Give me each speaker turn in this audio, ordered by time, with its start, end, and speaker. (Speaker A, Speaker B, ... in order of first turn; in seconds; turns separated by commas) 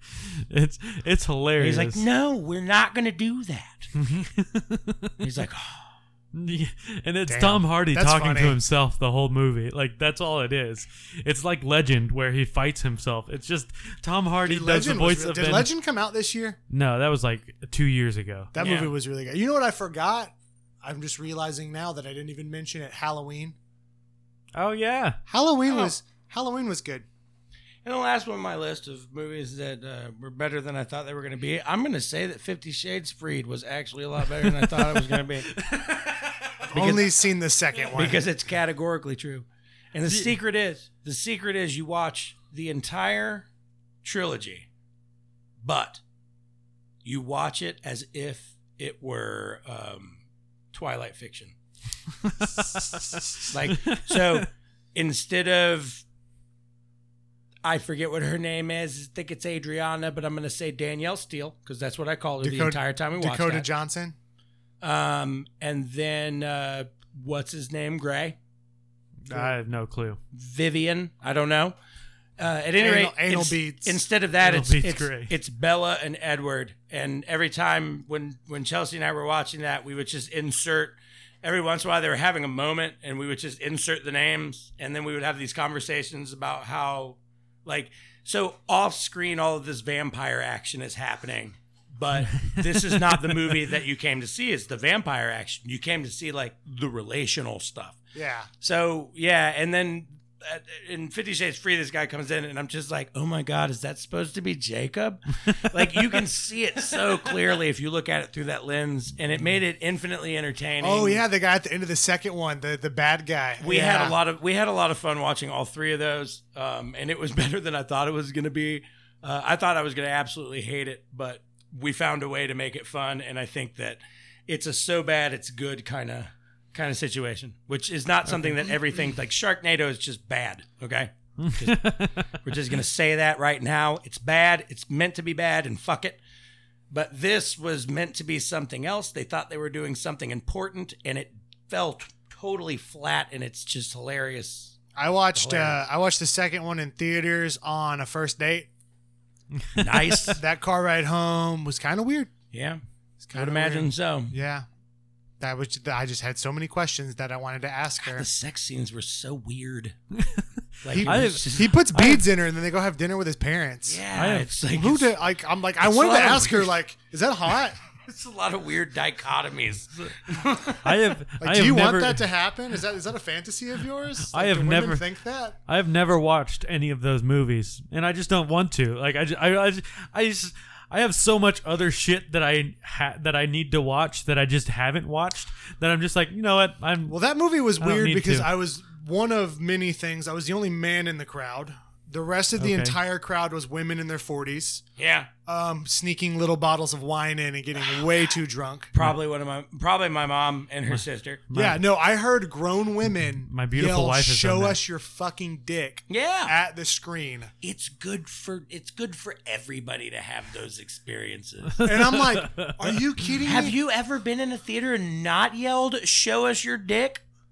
Speaker A: 0.2-2.0, Speaker B: 1.6-3.9, Speaker A: 4.0-5.2, Speaker B: 5.2-5.9, Speaker A: 6.3-15.7, Speaker C: 7.3-8.6, Speaker C: 14.4-16.6, Speaker A: 16.7-18.5, Speaker C: 18.5-23.6, Speaker B: 18.6-18.9, Speaker A: 24.5-25.2, Speaker C: 25.3-27.1, Speaker B: 25.7-25.9, Speaker B: 27.8-35.5, Speaker A: 34.4-36.5, Speaker C: 36.7-38.2, Speaker B: 36.7-37.0, Speaker B: 37.9-43.5, Speaker B: 44.0-44.7, Speaker B: 45.6-46.0, Speaker B: 47.0-50.2, Speaker B: 50.7-51.5, Speaker A: 52.4-54.5, Speaker B: 53.5-56.0, Speaker B: 57.6-63.7, Speaker C: 62.4-64.2, Speaker B: 64.8-68.4, Speaker A: 69.2-70.2, Speaker B: 70.3-71.8, Speaker B: 72.4-98.0, Speaker C: 72.8-74.0, Speaker A: 74.4-75.3, Speaker A: 92.5-93.0, Speaker C: 98.1-98.5, Speaker B: 98.6-111.2, Speaker C: 110.8-114.2, Speaker B: 113.6-136.2, Speaker A: 131.4-132.2, Speaker B: 136.9-144.8, Speaker C: 144.9-148.7, Speaker B: 145.3-145.8, Speaker A: 149.6-150.2, Speaker B: 149.8-150.4, Speaker C: 150.3-152.3, Speaker B: 152.5-152.8, Speaker C: 153.2-154.7, Speaker B: 153.3-154.3, Speaker C: 155.4-158.3, Speaker B: 158.1-160.0, Speaker A: 160.2-162.3, Speaker B: 160.8-161.8, Speaker C: 160.9-164.0, Speaker B: 163.9-165.1, Speaker A: 164.2-164.6, Speaker C: 164.7-167.8, Speaker B: 165.8-166.7, Speaker B: 168.0-171.0, Speaker A: 170.8-172.2, Speaker C: 171.4-175.6, Speaker A: 174.3-175.1, Speaker A: 175.7-187.2, Speaker C: 187.1-194.8, Speaker A: 187.8-188.5, Speaker A: 192.6-193.0, Speaker B: 195.0-195.3, Speaker C: 195.5-198.9, Speaker B: 198.9-201.4, Speaker A: 200.9-201.8, Speaker C: 201.5-207.5, Speaker A: 203.4-204.8, Speaker B: 206.1-206.5, Speaker B: 207.6-211.8, Speaker A: 211.8-213.0, Speaker C: 211.8-213.8, Speaker B: 213.4-217.2